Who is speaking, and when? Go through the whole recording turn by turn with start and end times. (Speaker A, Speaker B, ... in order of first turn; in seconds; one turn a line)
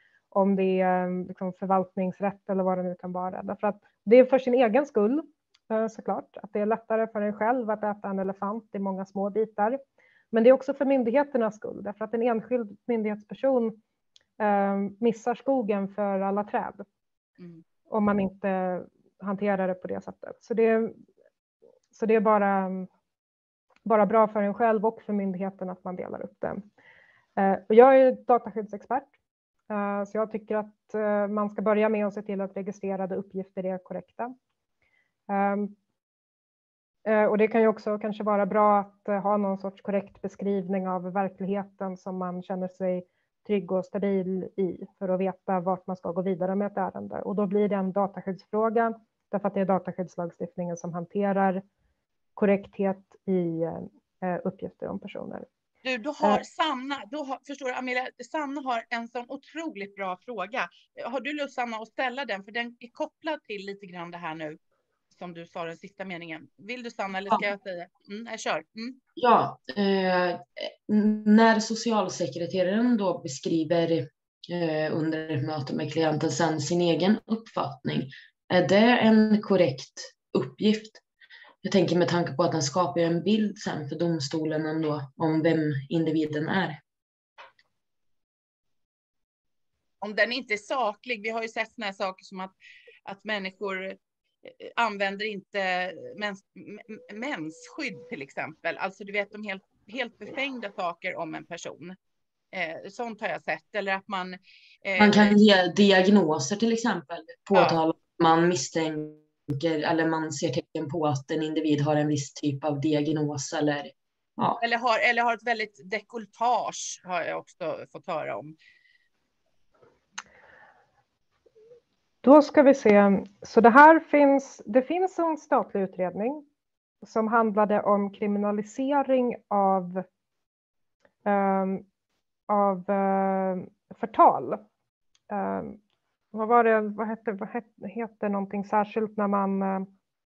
Speaker A: 0.3-9.8
Speaker A: 10.3-13.8
Speaker A: 14.4-16.8
Speaker B: 17.4-17.6
Speaker A: 17.9-21.0
Speaker A: 21.9-22.9
Speaker A: 23.9-26.6
Speaker A: 27.4-29.1
Speaker A: 29.7-34.3
Speaker A: 35.3-35.8
Speaker A: 37.0-51.6
Speaker A: 52.4-55.5
Speaker B: 55.8-64.6
Speaker B: 65.1-69.0
Speaker C: 69.2-81.0
Speaker C: 81.6-86.8
Speaker B: 90.0-92.5
Speaker B: 93.0-102.0
Speaker B: 102.5-105.4
Speaker C: 105.0-114.6
Speaker B: 114.6-118.5
Speaker A: 122.2-126.4
Speaker A: 127.0-130.0
Speaker A: 131.2-131.8
Speaker A: 132.5-134.6
Speaker A: 135.3-135.8
Speaker A: 136.3-139.9